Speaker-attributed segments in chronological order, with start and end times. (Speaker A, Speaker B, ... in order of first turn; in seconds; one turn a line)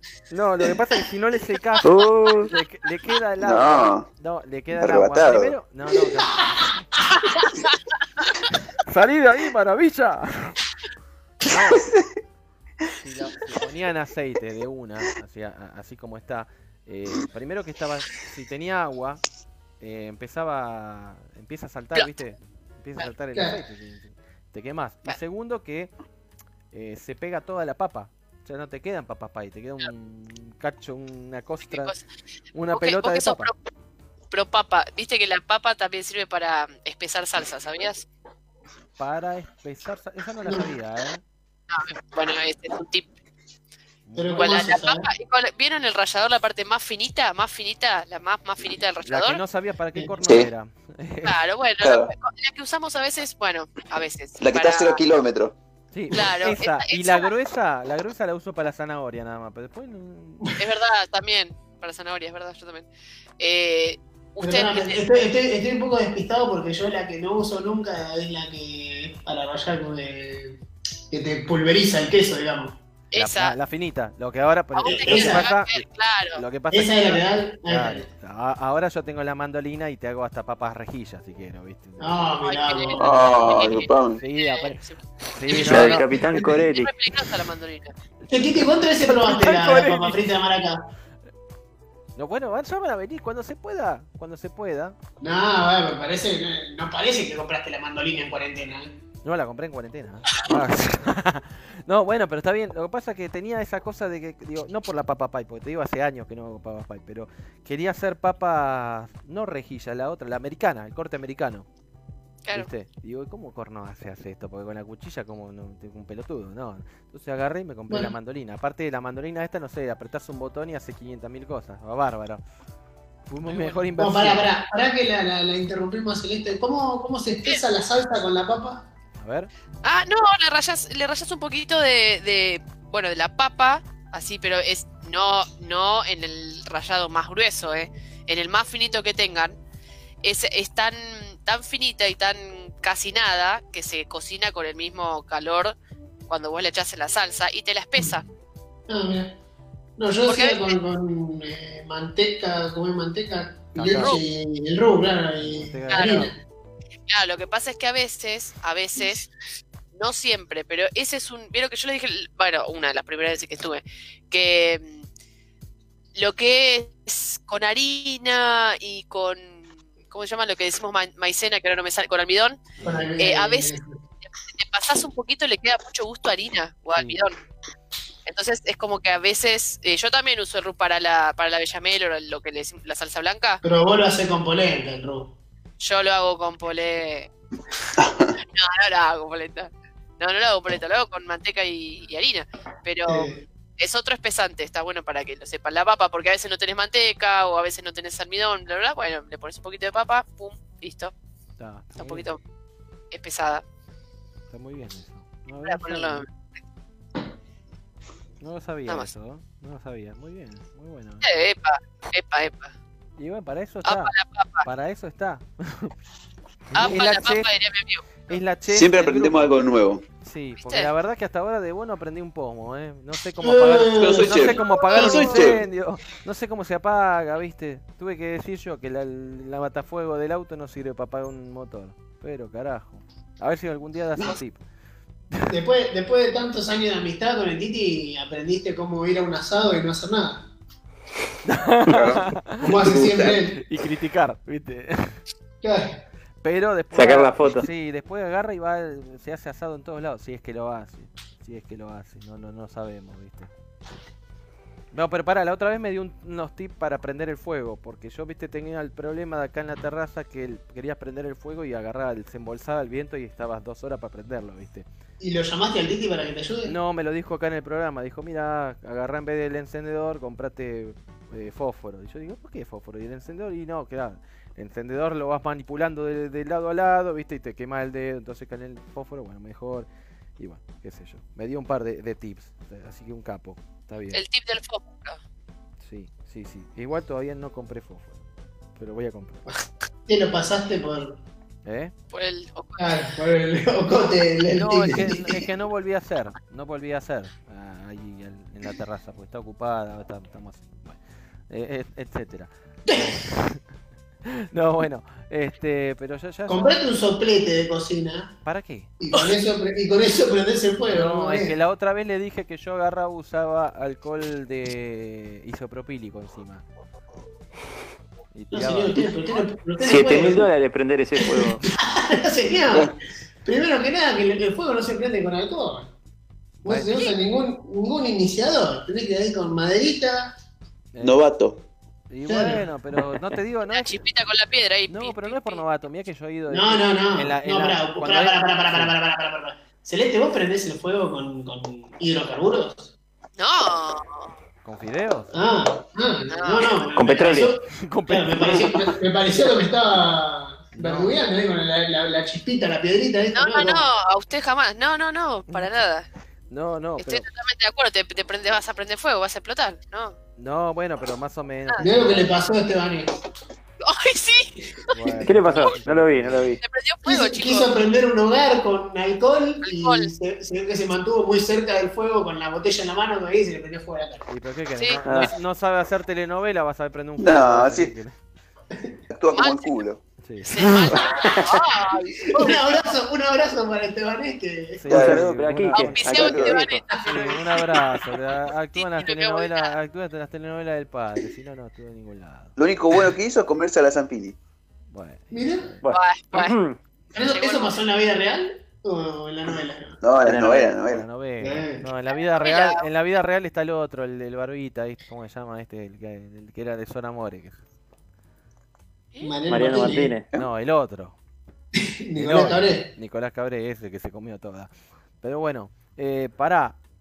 Speaker A: 0.3-6.8
Speaker B: 1.8-2.5
Speaker C: 3.4-4.1
Speaker C: 4.8-5.5
Speaker A: 8.8-10.6
Speaker A: 11.4-11.9
Speaker C: 11.8-12.0
Speaker A: 12.9-19.2
Speaker A: 19.8-25.9
Speaker A: 26.7-32.0
Speaker D: 31.7-32.0
Speaker A: 32.5-33.5
Speaker D: 32.7-33.6
Speaker D: 34.3-38.1
Speaker A: 39.0-41.2
Speaker D: 41.7-43.1
Speaker A: 44.1-44.6
Speaker E: 44.2-45.1
Speaker D: 44.3-49.4
Speaker A: 49.0-51.5
Speaker C: 50.2-50.5
Speaker D: 51.2-55.0
Speaker C: 51.8-52.1
Speaker C: 54.4-55.6
Speaker A: 55.9-60.6
Speaker D: 56.1-57.3
Speaker D: 60.6-62.9
Speaker D: 63.4-65.2
Speaker E: 64.4-70.6
Speaker E: 71.1-72.8
Speaker D: 73.1-73.5
Speaker A: 73.2-82.2
Speaker D: 74.8-76.4
Speaker E: 74.9-75.5
Speaker E: 76.7-78.1
Speaker E: 82.0-83.3
Speaker D: 82.4-86.0
Speaker C: 83.0-84.2
Speaker A: 83.1-86.2
Speaker B: 85.5-86.9
Speaker D: 86.8-87.9
Speaker A: 88.3-90.3
Speaker E: 88.3-90.9
Speaker A: 92.2-95.0
Speaker E: 95.2-98.9
Speaker A: 99.2-111.7
Speaker A: 112.5-122.4
Speaker A: 123.3-124.5
Speaker D: 123.5-123.8
Speaker E: 124.0-128.9
Speaker A: 129.2-129.5
Speaker D: 129.8-139.6
Speaker D: 140.2-145.8
Speaker D: 146.3-148.2
Speaker E: 148.9-149.3
Speaker E: 150.0-156.3
Speaker D: 150.3-150.8
Speaker A: 153.8-154.2
Speaker D: 153.9-154.2
Speaker A: 155.4-156.3
Speaker D: 155.9-156.3
Speaker D: 157.1-159.3
Speaker D: 159.9-165.1
Speaker D: 166.2-172.6
Speaker A: 172.8-173.1
Speaker E: 172.8-174.0
Speaker D: 173.2-173.8
Speaker D: 174.3-177.4
Speaker A: 177.0-177.2
Speaker D: 178.3-183.6
Speaker E: 183.6-185.3
Speaker D: 185.8-187.3
Speaker C: 188.0-188.3
Speaker D: 188.4-201.1
Speaker E: 193.1-193.4
Speaker A: 201.6-202.3
Speaker D: 202.0-202.4
Speaker D: 203.1-203.6
Speaker A: 204.5-206.2
Speaker D: 205.7-206.3
Speaker A: 208.4-211.4
Speaker D: 211.2-212.7
Speaker A: 213.2-215.9
Speaker D: 213.8-214.7
Speaker A: 216.7-217.5
Speaker D: 216.8-218.4
Speaker A: 218.3-219.6
Speaker C: 218.7-220.0
Speaker A: 220.2-234.6
Speaker D: 220.6-220.9
Speaker E: 223.4-225.5
Speaker C: 224.0-225.6
Speaker A: 235.3-235.6
Speaker E: 235.5-240.4
Speaker A: 241.4-245.2
Speaker C: 241.9-243.4
Speaker E: 242.6-243.6
Speaker E: 245.6-246.0
Speaker A: 246.4-253.5
Speaker B: 246.9-247.7
Speaker A: 254.9-264.9
Speaker E: 265.2-266.7
Speaker A: 266.7-284.2
Speaker D: 284.1-285.2
Speaker A: 285.8-288.2
Speaker A: 288.8-289.5
Speaker E: 289.5-291.2
Speaker A: 291.6-291.9
Speaker D: 292.1-293.1
Speaker E: 292.8-295.4
Speaker A: 294.5-303.6
Speaker E: 302.9-303.1
Speaker A: 304.3-306.8
Speaker E: 306.5-308.3
Speaker A: 308.4-308.9
Speaker E: 309.0-311.5
Speaker A: 310.9-316.6
Speaker A: 318.3-319.4
Speaker E: 318.5-320.5
Speaker B: 319.8-321.6
Speaker E: 321.2-325.9
Speaker E: 326.6-330.4
Speaker A: 326.6-327.1
Speaker A: 330.9-331.2
Speaker C: 331.0-331.6
Speaker A: 332.1-334.0
Speaker E: 332.3-332.6
Speaker D: 333.7-335.6
Speaker A: 334.9-338.9
Speaker E: 336.5-342.9
Speaker D: 343.4-344.3
Speaker A: 344.6-345.3
Speaker E: 345.3-353.9
Speaker D: 346.3-346.9
Speaker B: 346.9-347.6
Speaker A: 347.7-349.0
Speaker A: 350.7-351.2
Speaker D: 353.3-356.1
Speaker A: 356.5-357.2
Speaker D: 357.0-360.2
Speaker A: 360.4-362.4
Speaker E: 361.8-363.1
Speaker D: 363.8-364.9
Speaker A: 364.9-366.6
Speaker B: 365.3-366.6
Speaker D: 366.6-367.8
Speaker E: 367.1-374.3
Speaker D: 369.6-370.1
Speaker A: 374.3-378.2
Speaker D: 374.8-375.1
Speaker B: 375.0-375.3
Speaker C: 377.2-377.9
Speaker C: 379.1-380.0
Speaker D: 379.4-379.8
Speaker A: 380.2-380.6
Speaker D: 380.4-382.9
Speaker B: 380.6-381.6
Speaker E: 382.2-385.0
Speaker A: 384.8-392.6
Speaker C: 384.9-385.3
Speaker B: 384.9-386.8
Speaker D: 385.7-387.7
Speaker C: 386.1-386.7
Speaker E: 386.9-388.0
Speaker D: 388.7-389.7
Speaker C: 392.6-394.4
Speaker A: 394.9-395.8
Speaker E: 395.3-395.7
Speaker B: 395.8-396.8
Speaker D: 395.9-396.6
Speaker E: 397.1-400.0
Speaker D: 397.2-397.8
Speaker C: 400.0-401.1
Speaker B: 400.2-400.7
Speaker A: 400.4-407.6
Speaker E: 401.4-401.9
Speaker D: 402.4-402.8
Speaker D: 409.1-409.4
Speaker E: 409.2-410.2
Speaker B: 409.5-410.3
Speaker A: 410.3-411.2
Speaker E: 411.8-412.9
Speaker A: 412.2-416.8